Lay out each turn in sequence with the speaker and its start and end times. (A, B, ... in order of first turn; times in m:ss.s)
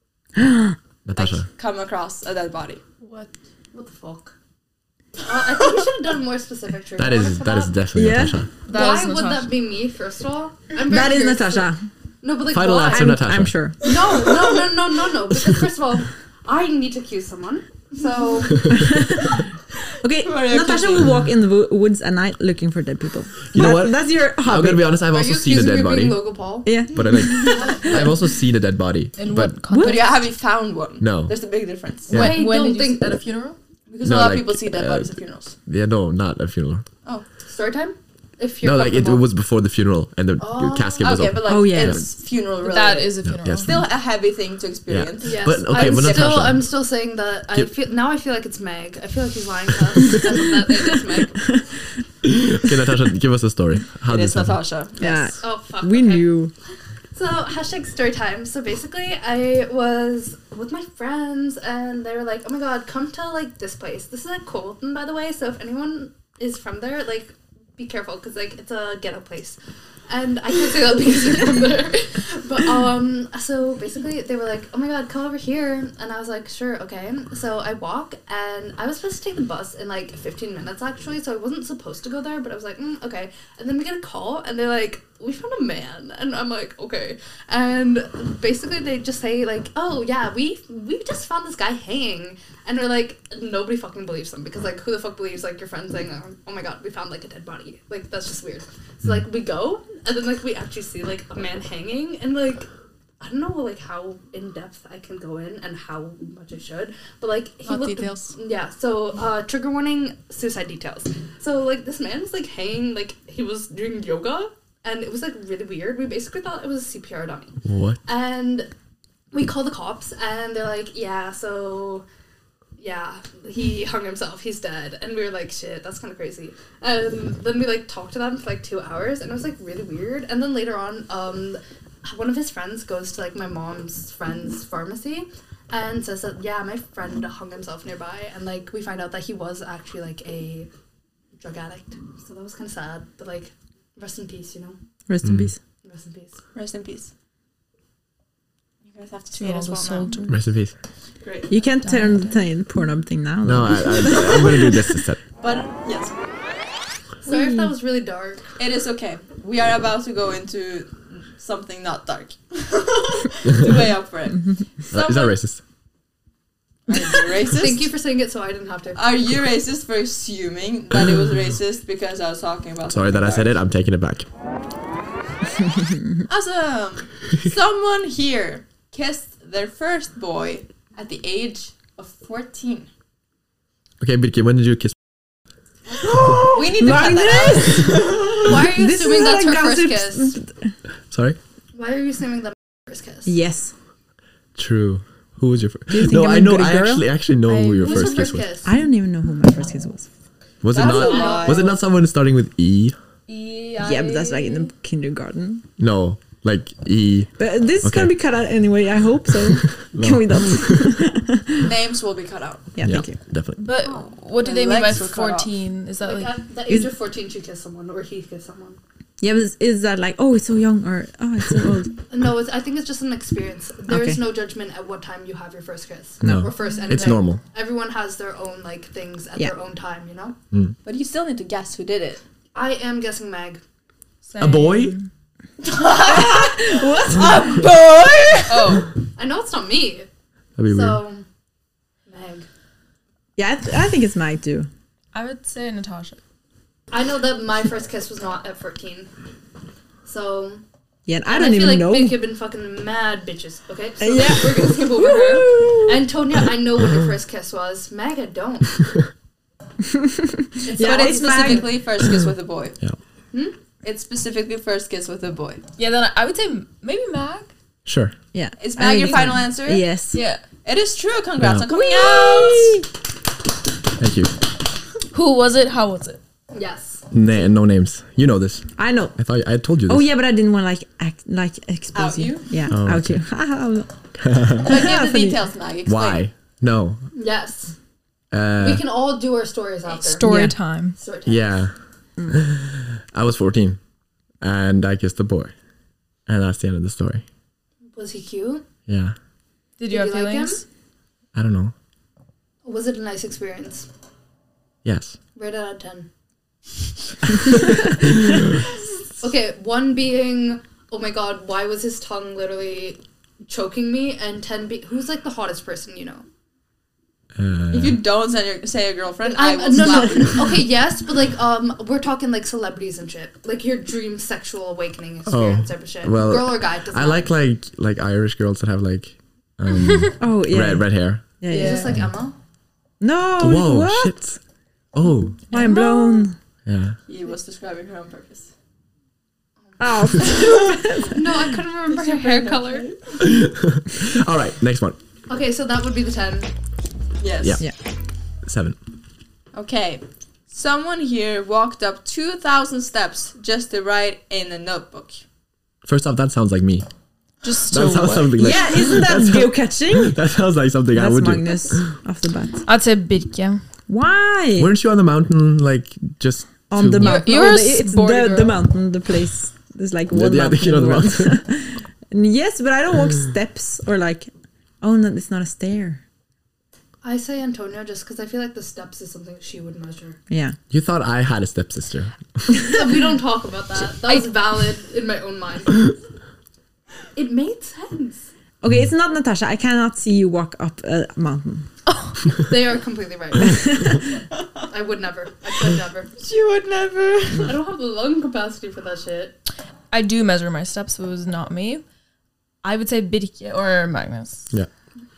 0:00.4-0:00.8 A
0:01.0-0:01.5 B
0:01.2-0:02.8 C
0:03.0-0:03.3 D
0:03.7-0:04.4 E
0:05.2-0:07.8 E
0:07.0-0:08.5 B
0:07.9-0:08.4 A
0:08.7-0:09.5 D
0:08.7-0:13.2 E
0:10.9-0:11.8 A
0:12.5-0:13.6 B
0:12.9-0:13.9 A
0:13.8-0:18.8 E
0:18.7-0:19.4 A
0:20.0-0:25.0 A
0:20.2-0:21.1 C
0:23.5-0:26.2 B
0:25.1-0:26.8 E
0:26.6-0:27.9 A
0:26.9-0:29.6 B
0:27.4-0:28.0 E
0:29.2-0:30.1 D
0:29.7-0:30.1 A
0:29.8-0:32.2 C
0:31.0-0:31.4 B
0:32.1-0:32.4 B
0:32.1-0:33.2 E
0:32.1-0:33.6 D
0:33.9-0:35.6 C
0:34.0-0:35.1 B
0:35.7-0:36.9 B
0:37.5-0:39.3 E
0:38.6-0:42.0 B
0:40.4-0:41.3 E
0:41.0-0:46.5 C
0:41.4-0:42.1 A
0:42.6-0:43.8 D
0:43.2-0:43.9 B
0:44.9-0:46.7 B
0:45.2-0:51.4 E
0:52.2-0:54.6 B
0:54.1-0:55.4 C
0:55.0-0:56.5 A
0:55.4-0:56.4 E
0:57.2-1:42.7 E
1:43.2-1:58.7 E
1:47.7-1:48.3 D
1:57.6-1:58.0 B
1:59.3-2:02.0 E
2:02.8-2:20.7 E
2:21.4-2:24.8 E
2:25.1-2:25.6 A
2:25.2-2:25.5 B
2:25.8-2:26.4 E
2:26.5-2:27.1 C
2:28.8-2:30.1 C
2:29.4-2:30.4 D
2:30.3-2:30.7 B
2:31.5-2:35.0 A
2:31.8-2:32.4 D
2:33.4-2:35.2 B
2:35.4-2:36.2 C
2:37.2-2:38.4 E
2:37.3-2:37.6 A
2:38.6-2:45.4 C
2:44.9-2:45.6 B
2:46.9-2:47.9 C
2:47.5-2:49.0 E
2:49.0-2:53.6 C
2:52.9-2:54.3 B
2:56.3-3:02.9 C
3:04.0-3:05.0 B
3:06.2-3:10.7 A
3:06.3-3:08.4 C
3:08.3-3:10.4 E
3:11.1-3:11.4 B
3:11.7-3:13.4 E
3:13.3-3:13.7 A
3:14.6-3:18.5 B
3:15.9-3:17.1 A
3:17.5-3:18.2 D
3:17.8-3:18.7 E
3:18.6-3:20.1 A
3:20.6-3:23.0 B
3:20.7-3:21.7 C
3:20.8-3:21.7 E
3:21.0-3:21.5 D
3:23.3-3:24.7 D
3:23.8-3:25.6 A
3:25.8-3:28.2 B
3:27.4-3:31.7 A
3:29.7-3:31.0 B
3:31.6-3:32.7 C
3:32.7-3:33.2 A
3:32.8-3:33.7 B
3:33.6-3:36.4 D
3:34.4-3:35.5 C
3:36.0-3:38.8 E
3:39.2-3:41.9 A
3:42.1-3:50.4 E
3:43.9-3:44.2 A
3:46.2-3:47.4 B
3:50.8-3:52.2 C
3:52.5-3:53.6 E
3:54.2-3:55.1 D
3:54.4-3:55.0 B
3:55.6-3:58.8 C
3:56.0-3:57.6 A
3:58.5-3:58.9 D
3:59.2-4:00.1 E
4:00.6-4:01.0 B
4:00.7-4:01.2 E
4:02.1-4:02.5 E
4:03.4-4:04.7 A
4:05.1-4:06.2 D
4:06.9-4:09.1 E
4:10.1-4:10.6 E
4:11.1-4:12.2 A
4:11.3-4:18.7 E
4:14.0-4:16.0 A
4:19.9-4:21.8 A
4:20.6-4:21.7 E
4:20.8-4:22.8 C
4:23.8-4:25.6 C
4:25.8-4:27.5 D
4:27.8-4:28.2 B
4:28.3-4:30.2 A
4:28.6-4:29.9 C
4:29.0-4:29.3 D
4:30.1-4:30.4 D
4:30.6-4:32.8 C
4:31.4-4:31.7 B
4:31.9-4:32.7 A
4:32.0-4:32.5 D
4:34.0-4:34.4 B
4:35.1-4:36.2 D
4:36.5-4:37.0 E
4:37.1-4:40.1 B
4:38.8-4:39.2 A
4:39.9-4:45.4 A
4:41.9-4:42.6 C
4:42.7-4:43.2 B
4:44.2-4:44.7 B
4:44.6-4:46.3 C
4:45.9-4:47.0 B
4:47.1-4:47.8 E
4:48.3-4:48.9 B
4:48.6-4:50.3 E
4:50.1-4:51.0 D
4:50.2-4:50.6 A
4:51.0-4:51.5 E
4:51.3-4:51.7 B
4:52.3-4:53.8 B
4:54.4-4:55.5 B
4:56.3-4:57.2 B
4:58.0-4:58.6 E
4:58.9-4:59.2 B
4:59.8-5:00.6 D
4:59.9-5:00.6 E
5:01.4-5:01.7 B
5:02.6-5:03.9 E
5:04.8-5:05.2 B
5:05.4-5:06.1 E
5:07.5-5:08.4 E
5:09.2-5:16.2 E
5:17.4-5:18.0 B
5:17.7-5:20.4 C
5:19.2-5:27.3 E
5:25.3-5:31.3 B
5:30.2-5:32.0 A
5:31.5-5:32.4 E
5:31.5-5:31.9 D
5:33.0-5:34.2 A
5:33.4-5:34.4 B
5:34.9-5:35.5 B
5:35.5-5:36.4 A
5:36.6-5:37.0 B
5:37.1-5:38.5 C
5:39.8-5:42.9 E
5:39.8-5:41.5 A
5:41.9-5:43.0 C
5:43.2-5:45.0 B
5:45.3-5:46.5 E
5:47.2-5:47.6 C
5:48.4-5:48.8 B
5:49.5-5:55.2 C
5:55.8-5:56.9 B
5:57.4-5:58.9 D
5:57.7-6:01.9 B
5:58.4-6:00.2 A
6:00.9-6:02.6 A
6:02.6-6:03.6 D
6:03.9-6:04.7 A
6:04.6-6:07.3 B
6:06.7-6:14.3 A
6:06.9-6:08.6 D
6:10.1-6:11.4 B
6:14.8-6:16.0 A
6:17.0-6:20.2 E
6:20.3-6:20.6 A
6:20.7-6:22.1 B
6:22.5-6:25.9 E
6:27.2-6:28.3 E
6:28.6-6:31.7 A
6:31.9-6:32.1 D
6:32.5-6:34.0 E
6:33.5-6:34.0 A
6:34.7-6:36.1 E
6:36.2-6:37.5 C
6:37.3-6:39.4 E
6:39.9-6:41.8 D
6:42.6-6:44.5 D